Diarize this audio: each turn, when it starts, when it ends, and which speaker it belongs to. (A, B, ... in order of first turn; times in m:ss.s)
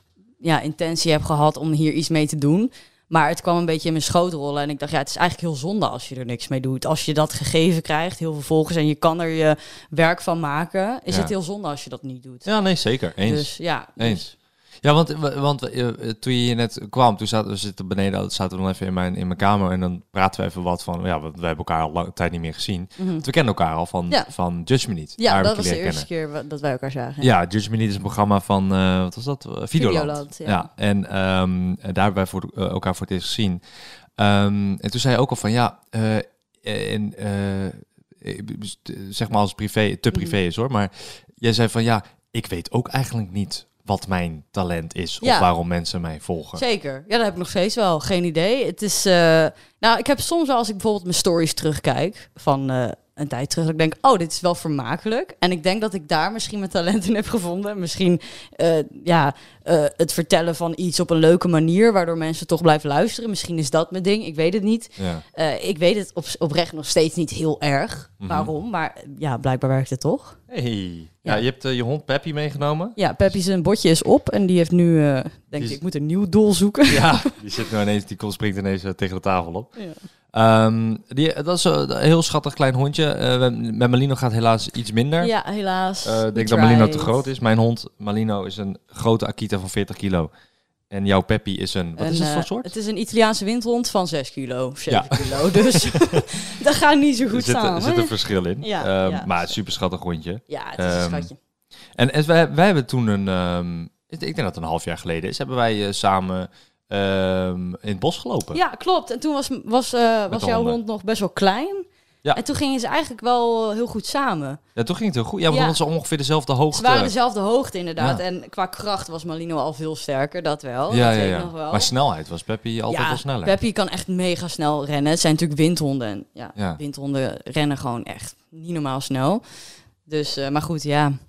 0:00.4-0:12.5 A
0:12.4-0:14.2 B
0:13.2-0:14.3 A
0:14.8-0:26.1 B
0:23.0-0:23.3 A
0:25.2-0:27.3 A
0:27.2-0:33.6 B
0:29.8-0:30.7 A
0:34.2-0:46.6 B
0:45.2-0:45.5 A
0:46.6-1:10.4 A
1:05.0-1:05.2 B
1:08.2-1:08.5 B
1:10.5-1:13.0 B
1:13.0-1:17.3 A
1:16.9-1:19.7 B
1:20.3-1:25.3 B
1:25.2-1:27.3 A
1:26.0-1:30.3 B
1:30.9-1:32.7 B
1:32.0-1:39.5 A
1:34.9-1:36.3 B
1:37.3-1:41.3 B
1:40.5-1:41.4 A
1:42.0-1:48.6 B
1:48.5-1:54.6 A
1:50.3-1:50.8 B
1:54.8-1:57.1 B
1:55.5-1:55.8 A
1:56.7-2:01.9 A
2:00.9-2:03.6 B
2:02.9-2:09.4 A
2:10.1-2:11.2 A